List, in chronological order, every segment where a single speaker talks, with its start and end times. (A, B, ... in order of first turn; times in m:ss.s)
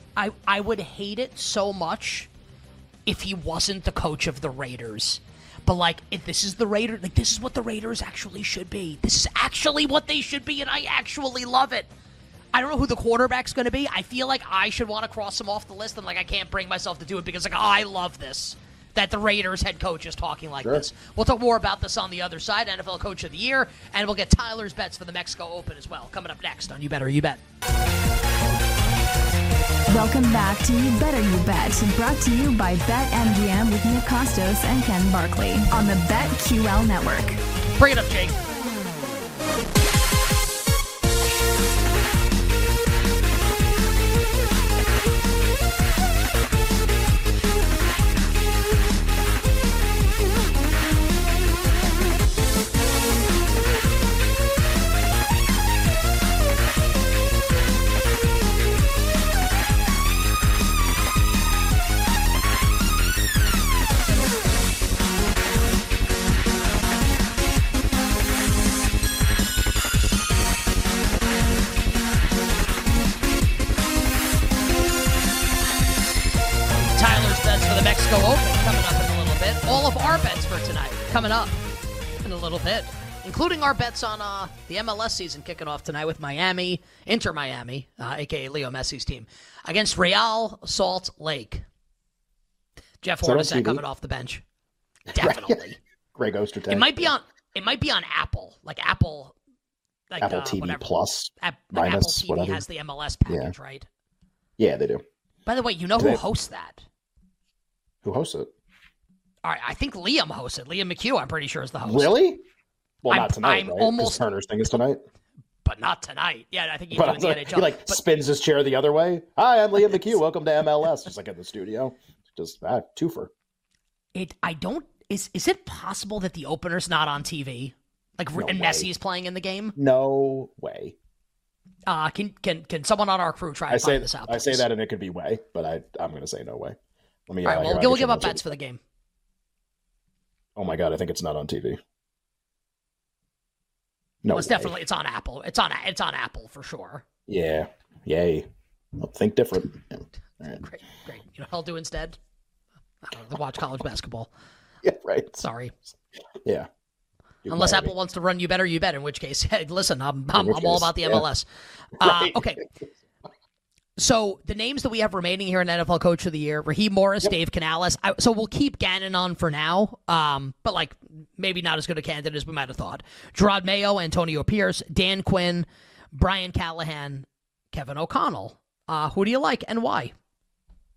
0:00.2-0:02.3 A
0:03.1-0:11.9 A
0:12.5-0:27.4 A
0:29.9-0:37.4 B
0:37.8-0:38.4 A
1:16.9-1:21.6 A
1:22.2-1:31.6 A
1:33.0-1:34.4 A
1:33.2-1:33.8 C
1:35.1-1:35.6 C
1:35.1-1:35.8 A
1:36.2-1:37.1 C
1:36.7-1:39.4 A
1:40.1-1:40.9 A
1:40.2-1:42.6 C
1:41.4-1:43.9 A
1:43.3-1:43.5 C
1:44.6-1:45.0 C
1:45.5-1:46.8 A
1:46.0-1:46.2 C
1:48.0-1:48.5 C
1:49.4-1:52.2 A
1:51.8-1:52.4 C
1:53.0-1:55.0 C
1:53.1-1:54.2 A
1:55.6-1:58.0 A
1:56.9-2:03.3 C
2:04.2-2:09.8 A
2:08.4-2:08.9 C
2:09.8-2:11.0 C
2:11.9-2:14.6 A
2:13.7-2:16.8 C
2:17.3-2:18.5 C
2:17.4-2:18.8 A
2:20.6-2:21.8 C
2:24.2-2:24.8 C
2:24.3-2:27.0 A
2:27.3-2:28.4 C
2:29.0-2:30.6 C
2:30.6-2:32.2 A
2:33.0-2:34.3 A
2:34.8-2:35.4 C
2:35.4-2:35.7 A
2:36.4-2:36.7 C
2:37.4-2:37.9 C
2:37.5-2:41.5 A
2:40.3-2:41.2 C
2:42.0-2:42.6 A
2:42.0-2:42.7 C
2:44.0-3:00.1 A